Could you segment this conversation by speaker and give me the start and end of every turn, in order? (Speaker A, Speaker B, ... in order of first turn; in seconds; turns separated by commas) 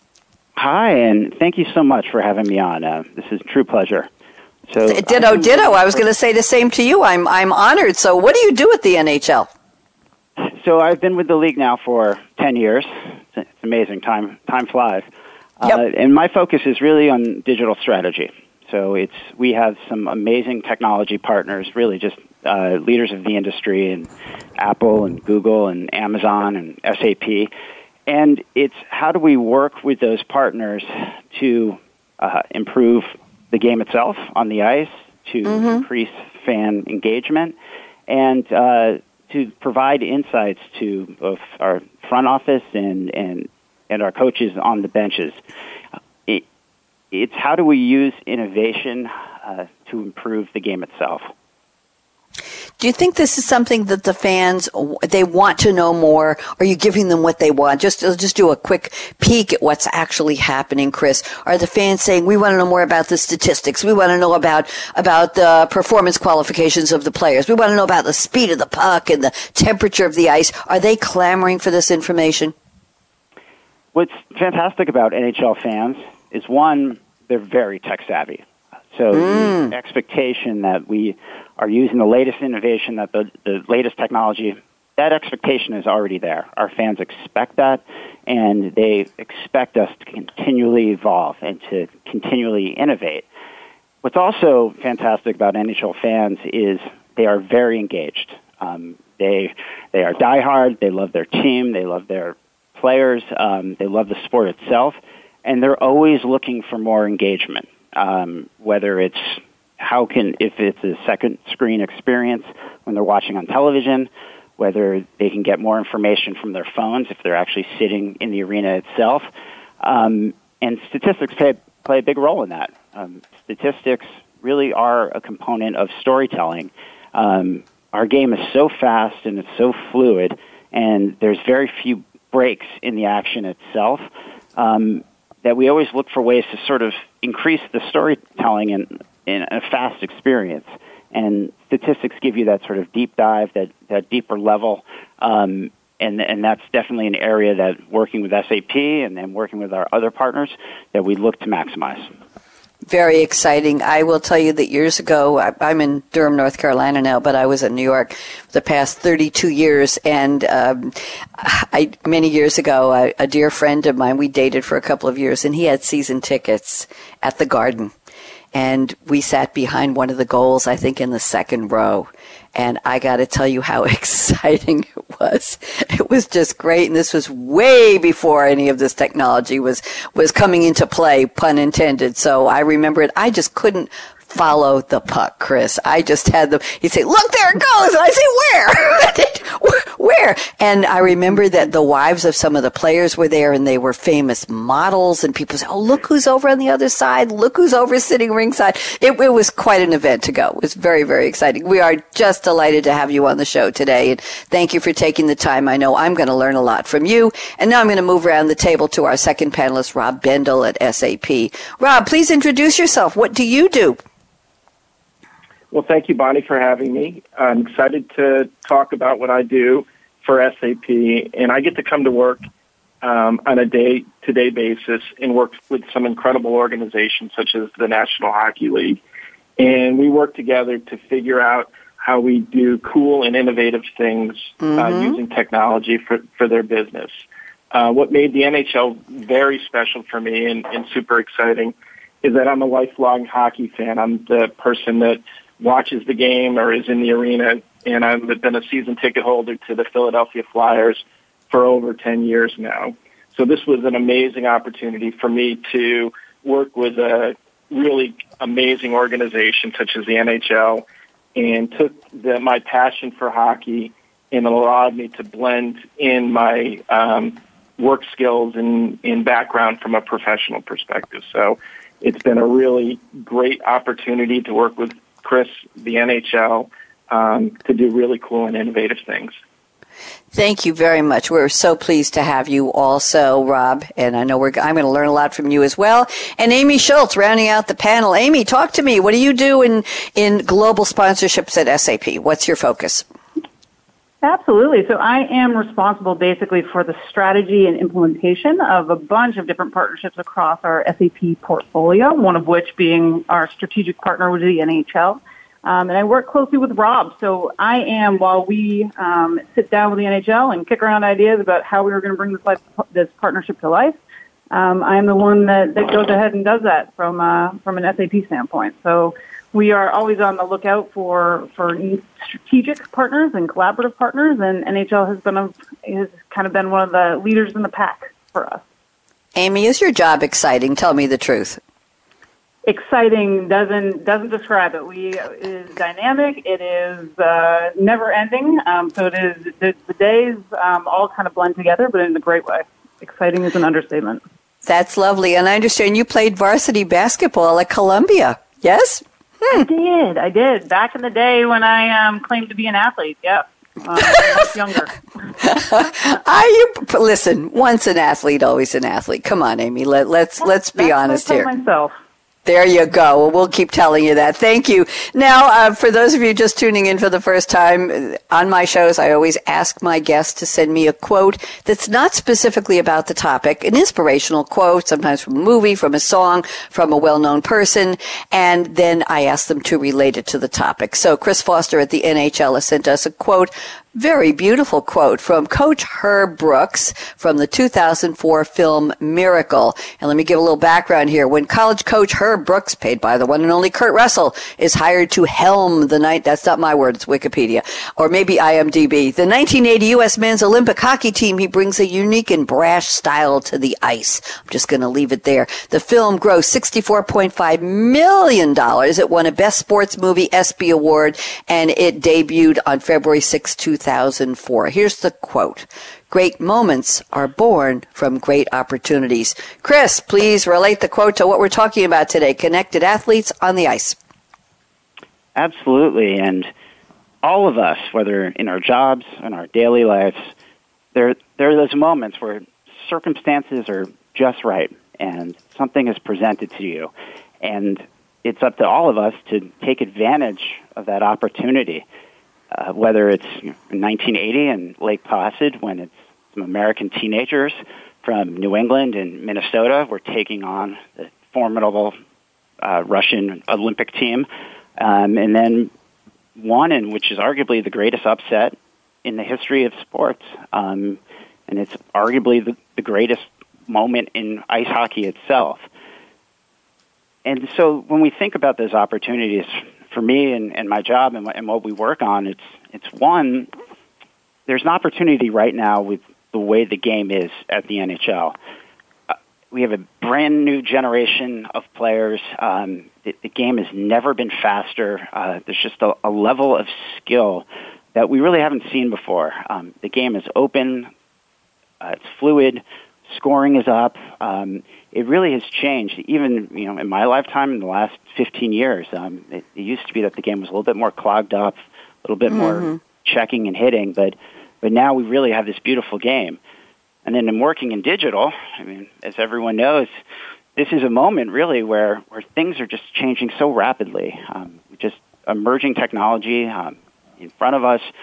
Speaker A: 0.6-4.1, Speaker A: 4.7-5.9, Speaker B: 4.9-9.5, Speaker A: 10.4-15.1, Speaker A: 15.6-27.5, Speaker A: 28.1-37.5, Speaker B: 35.5-35.8, Speaker A: 38.1-45.4, Speaker A: 47.1-51.3, Speaker B: 52.8-72.5, Speaker A: 73.9-93.3, Speaker B: 79.1-79.7, Speaker A: 94.0-119.3, Speaker A: 119.8-134.0, Speaker A: 134.6-152.0, Speaker B: 152.9-167.9, Speaker B: 168.5-214.0, Speaker C: 215.7-222.4, Speaker C: 223.0-229.0, Speaker C: 229.6-237.1, Speaker B: 234.6-235.2, Speaker C: 237.7-260.8, Speaker C: 261.4-279.3, Speaker B: 280.3-293.1, Speaker D: 294.2-314.0, Speaker D: 314.5-328.6, Speaker B: 329.4-331.6, Speaker D: 332.6-344.2, Speaker B: 344.6-349.6, Speaker D: 349.5-354.9, Speaker B: 355.4-361.5, Speaker D: 360.4-361.9, Speaker B: 362.4-424.0, Speaker A: 425.4-426.5, Speaker A: 427.2-430.3, Speaker A: 430.9-436.9, Speaker A: 437.4-441.9, Speaker A: 442.5-451.9, Speaker A: 452.6-454.3, Speaker A: 454.8-455.7, Speaker A: 456.4-465.6, Speaker A: 467.2-473.5, Speaker A: 474.5-478.3, Speaker A: 479.1-490.9, Speaker A: 491.8-506.4, Speaker B: 502.3-502.7, Speaker A: 507.0-509.9, Speaker A: 510.6-517.9